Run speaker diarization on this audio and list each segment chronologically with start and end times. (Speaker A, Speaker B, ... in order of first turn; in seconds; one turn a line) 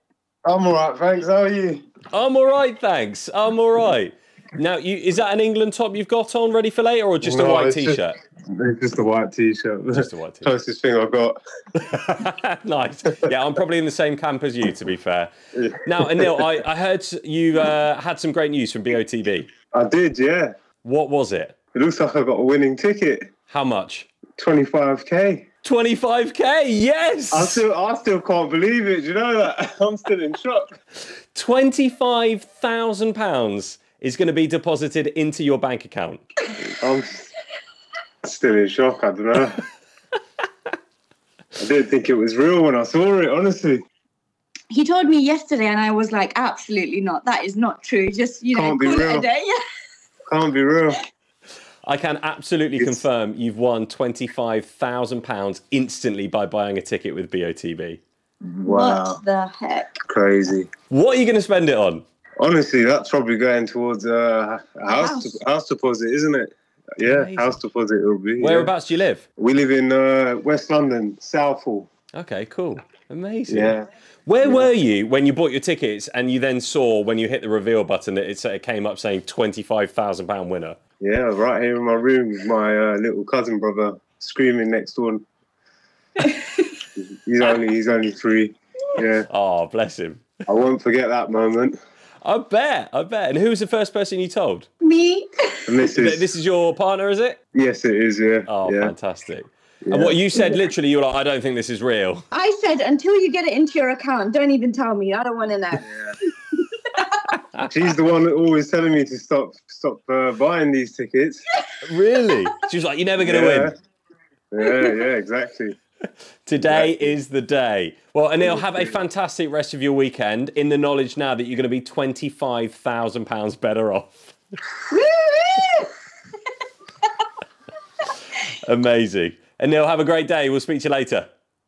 Speaker A: 0.5-1.8
Speaker B: 2.1-8.1
Speaker A: 7.2-11.4
Speaker B: 9.9-10.5
Speaker B: 11.8-15.3
Speaker A: 15.6-16.3
Speaker B: 15.8-19.5
Speaker A: 19.7-20.5
Speaker B: 20.8-21.6
Speaker A: 21.8-23.3
Speaker B: 23.5-24.1
Speaker A: 24.4-25.4
Speaker B: 25.6-27.6
Speaker A: 27.3-30.8
Speaker B: 31.3-36.2
Speaker A: 36.8-37.3
Speaker A: 38.2-39.6
Speaker A: 41.6-43.8
Speaker C: 44.7-49.6
Speaker A: 48.5-49.3
Speaker A: 50.3-51.0
Speaker B: 51.9-58.0
Speaker A: 52.8-53.0
Speaker A: 58.6-59.2
Speaker C: 58.6-60.0
Speaker A: 60.0-60.7
Speaker B: 60.9-62.0
Speaker A: 62.4-68.7
Speaker C: 64.9-65.4
Speaker B: 67.0-67.5
Speaker B: 68.4-69.2
Speaker A: 69.4-71.9
Speaker B: 72.2-80.8
Speaker A: 73.5-73.9
Speaker A: 74.4-74.7
Speaker A: 81.0-85.2
Speaker C: 86.2-86.7
Speaker A: 87.0-89.3
Speaker B: 89.3-90.3
Speaker A: 90.5-91.8
Speaker B: 92.2-94.7
Speaker C: 94.8-95.6
Speaker A: 95.7-96.3
Speaker B: 95.9-97.4
Speaker A: 97.5-98.9
Speaker B: 98.5-102.2
Speaker A: 99.9-100.2
Speaker C: 102.3-105.9
Speaker A: 107.7-111.5
Speaker B: 111.8-113.7
Speaker A: 113.2-113.8
Speaker A: 114.5-115.8
Speaker B: 116.5-124.2
Speaker A: 116.6-117.1
Speaker A: 118.5-119.0
Speaker C: 124.9-125.9
Speaker B: 128.5-131.3